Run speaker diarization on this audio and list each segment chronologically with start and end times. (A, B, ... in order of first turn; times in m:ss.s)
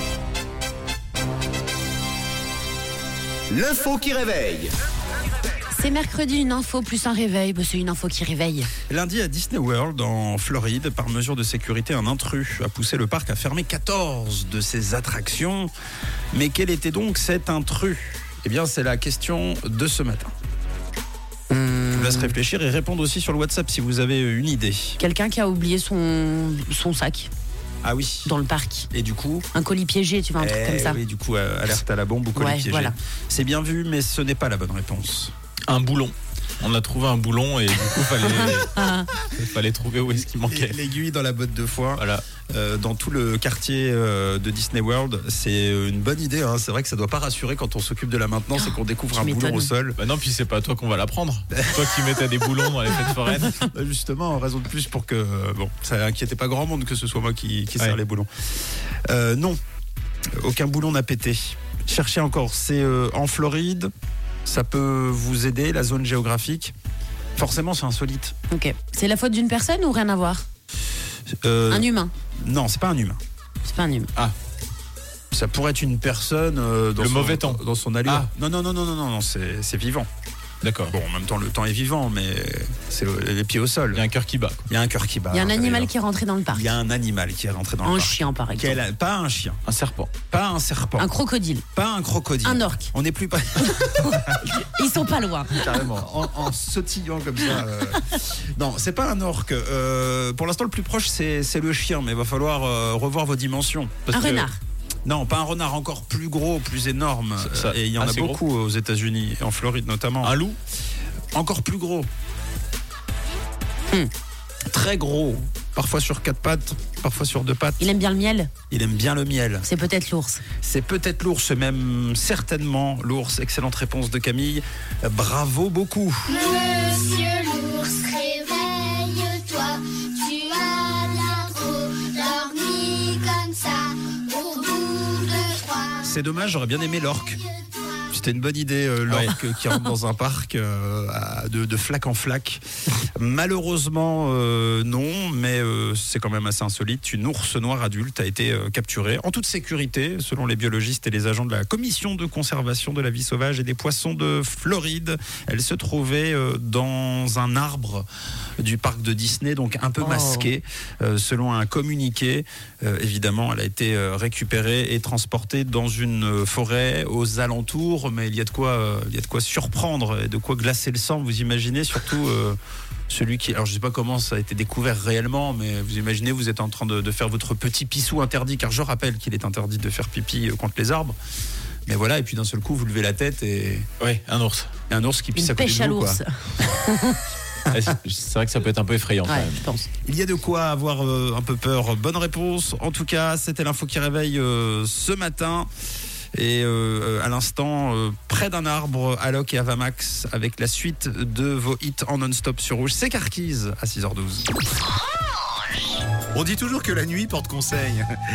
0:03.5-0:04.7 A
0:05.7-0:08.7 B
0:08.9-0:15.7 C
0:16.3-0:20.3 C
0:21.5-0:22.3 B
0:21.9-0:25.0 C
0:25.0-0:27.3 B
0:27.8-0:28.3 C
0:28.2-0:28.9 B
0:28.9-0:29.4 C
0:29.5-0:31.0 B
0:30.4-0:35.3 C
0:32.3-0:32.9 B
0:35.7-0:40.8 D
0:38.3-0:39.1 B
0:40.4-0:50.0 C
0:42.0-0:42.2 D
0:48.6-0:49.7 B
0:50.0-0:53.6 D
0:51.5-0:51.8 C
0:53.4-0:59.6 C
1:00.4-1:03.9 C
1:04.4-1:06.7 C
1:07.4-1:08.3 C
1:08.5-1:10.4 B
1:11.4-1:11.9 C
1:11.7-1:12.1 B
1:12.4-1:13.2 C
1:13.6-1:14.1 B
1:15.3-1:20.1 C
1:17.0-1:18.3 D
1:20.6-1:20.9 D
1:20.9-1:24.0 C
1:23.9-1:24.6 D
1:24.7-1:25.9 C
1:25.3-1:26.7 B
1:26.5-1:29.6 C
1:27.8-1:28.8 B
1:29.6-1:30.1 D
1:30.3-1:31.1 C
1:31.0-1:31.6 B
1:31.7-1:34.4 C
1:32.4-1:32.9 B
1:33.6-1:35.9 B
1:35.5-1:44.5 C
1:44.1-1:44.6 B
1:45.0-1:50.4 C
1:47.4-1:48.4 D
1:50.2-1:50.6 D
1:51.3-1:52.1 C
1:54.7-1:57.9 C
1:57.8-1:58.5 B
1:58.7-1:59.7 C
1:59.6-2:00.4 B
2:00.6-2:06.5 C
2:06.5-2:16.0 E
2:06.6-2:07.6 B
2:08.2-2:09.1 B
2:10.7-2:11.7 B
2:12.4-2:13.8 B
2:14.3-2:15.3 B
2:16.0-2:17.4 C
2:18.1-2:22.6 C
2:19.1-2:19.3 D
2:23.2-2:38.0 C
2:38.6-2:52.6 C
2:40.0-2:40.5 B
2:53.1-3:01.1 C
3:01.8-3:03.9 C
3:04.0-3:04.7 D
3:04.9-3:06.2 C
3:05.3-3:07.2 B
3:07.7-3:09.6 D
3:09.2-3:09.9 B
3:10.0-3:15.7 C
3:16.3-3:24.5 C
3:26.3-3:28.1 A